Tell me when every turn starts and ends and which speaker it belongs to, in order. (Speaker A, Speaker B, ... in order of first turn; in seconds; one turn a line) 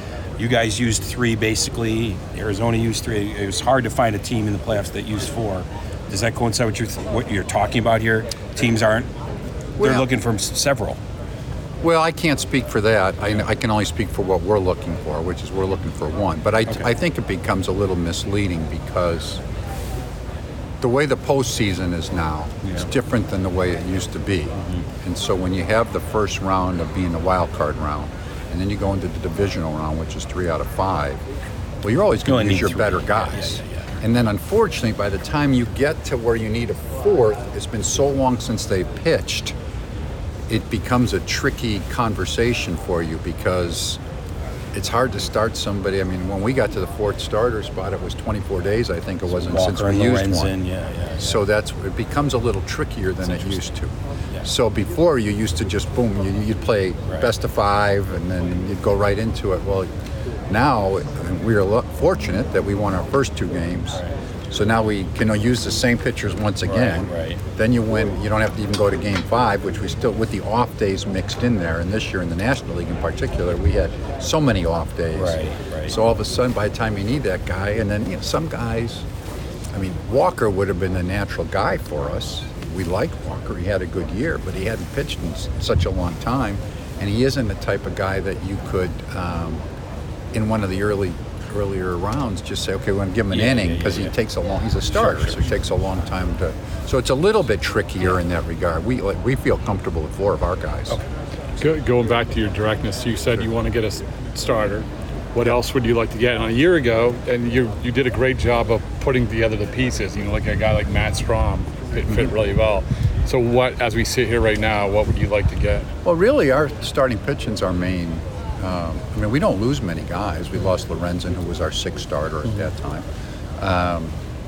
Speaker A: 0.4-9.1
Speaker A: 9.8-11.0
Speaker B: 9.8-10.1
Speaker B: 11.8-19.4
Speaker B: 20.8-31.2
Speaker B: 31.8-39.5
Speaker A: 32.2-33.9
Speaker B: 40.5-44.0
Speaker B: 44.7-50.5
Speaker A: 49.4-51.4
Speaker B: 51.2-59.9
Speaker B: 60.5-79.0
Speaker A: 66.6-67.4
Speaker A: 75.1-75.9
Speaker B: 79.7-89.6
Speaker B: 90.3-101.0
Speaker A: 93.3-94.1
Speaker A: 94.9-95.4
Speaker C: 101.6-115.9
Speaker B: 116.0-123.1
Speaker B: 123.6-124.1